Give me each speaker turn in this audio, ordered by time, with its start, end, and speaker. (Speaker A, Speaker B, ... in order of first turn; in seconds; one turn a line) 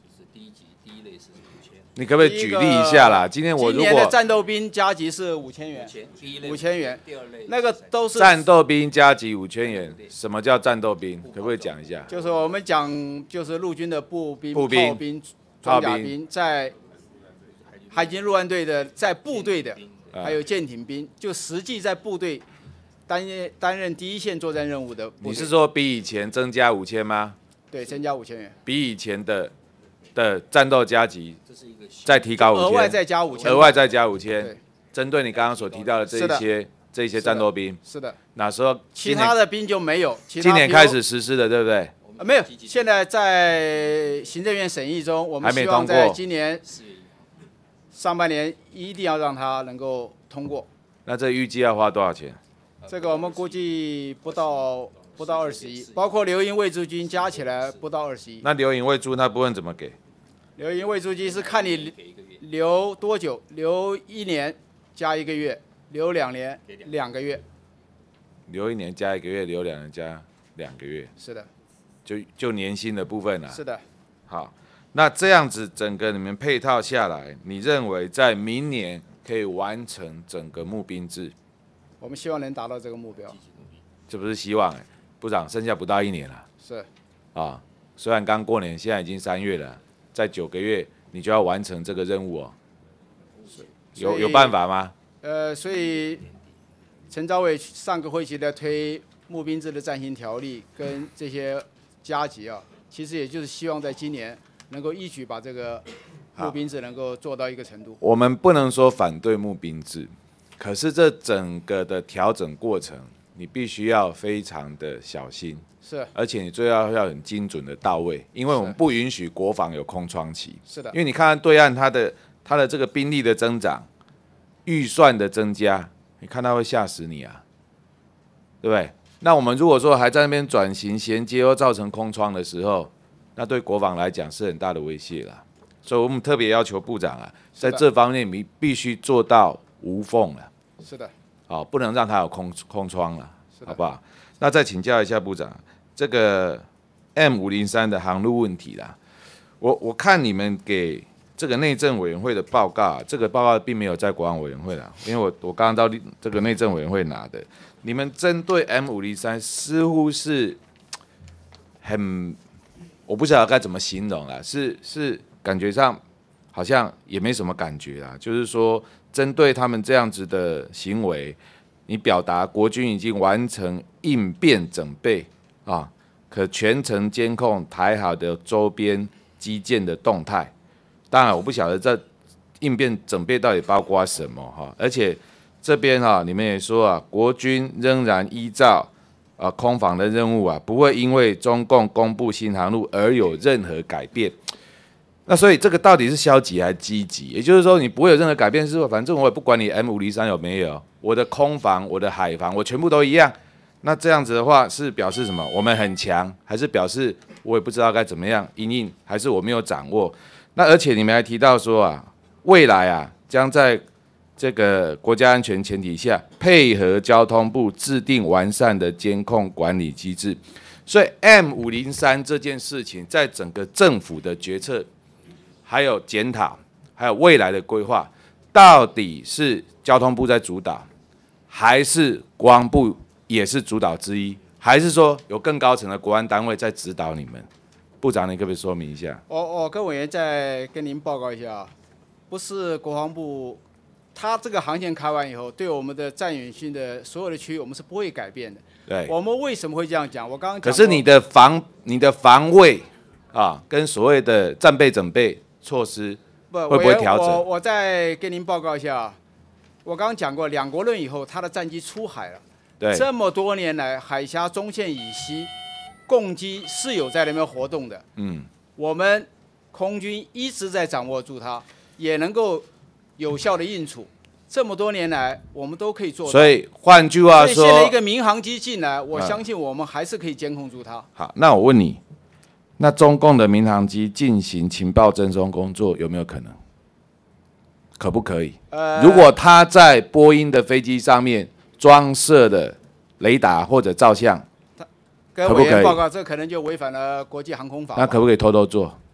Speaker A: 0.2-1.9
Speaker B: 1.9-4.2
Speaker C: 2.1-8.5
Speaker A: 6.0-7.4
Speaker B: 8.1-12.1
Speaker C: 12.1-16.7
Speaker B: 14.5-15.0
Speaker B: 15.6-16.1
Speaker C: 17.9-22.4
Speaker B: 20.1-20.4
Speaker C: 23.1-25.5
Speaker B: 25.2-27.4
Speaker C: 27.7-28.6
Speaker B: 28.6-29.5
Speaker B: 30.1-31.4
Speaker B: 32.0-37.8
Speaker C: 32.3-34.6
Speaker C: 36.0-36.5
Speaker C: 37.2-38.2
Speaker B: 38.3-39.3
Speaker C: 38.9-41.0
Speaker B: 40.4-42.0
Speaker C: 42.1-46.7
Speaker B: 45.4-46.2
Speaker C: 47.9-50.7
Speaker B: 51.0-52.4
Speaker C: 52.9-58.4
Speaker B: 58.4-60.0
Speaker C: 60.6-67.4
Speaker B: 68.5-71.1
Speaker C: 71.2-71.5
Speaker B: 72.0-73.6
Speaker C: 73.5-73.8
Speaker B: 74.3-81.3
Speaker C: 82.0-83.4
Speaker B: 84.1-86.5
Speaker C: 86.6-86.9
Speaker B: 87.3-92.5
Speaker C: 94.0-94.5
Speaker B: 94.0-94.9
Speaker C: 95.2-96.3
Speaker C: 97.1-108.0
Speaker B: 108.0-123.8
Speaker C: 115.8-116.1
Speaker C: 120.7-121.0
Speaker B: 124.7-127.4
Speaker B: 128.6-140.5
Speaker C: 137.6-137.8
Speaker C: 140.8-141.1
Speaker B: 141.5-146.6
Speaker B: 147.1-148.9
Speaker B: 149.6-160.6
Speaker B: 161.8-162.4
Speaker B: 163.1-166.0
Speaker B: 166.5-180.5
Speaker B: 181.1-182.0
Speaker B: 182.6-194.3
Speaker B: 195.2-213.8
Speaker B: 214.4-224.9
Speaker B: 225.7-230.9
Speaker B: 231.5-237.5
Speaker B: 238.0-239.2
Speaker C: 239.3-241.7
Speaker C: 242.3-243.6
Speaker C: 244.1-251.0
Speaker B: 248.9-249.1
Speaker B: 250.6-257.4
Speaker C: 256.5-259.2
Speaker C: 259.8-265.5
Speaker B: 262.8-263.1
Speaker C: 266.1-268.1
Speaker B: 268.2-268.5
Speaker C: 268.8-272.6
Speaker C: 273.2-276.6
Speaker B: 276.2-277.9
Speaker C: 277.2-281.1
Speaker B: 279.1-279.4
Speaker B: 281.1-282.0
Speaker B: 282.8-286.6
Speaker B: 288.0-294.4
Speaker C: 288.7-289.3
Speaker C: 294.8-298.2
Speaker B: 295.4-296.0
Speaker B: 297.9-299.0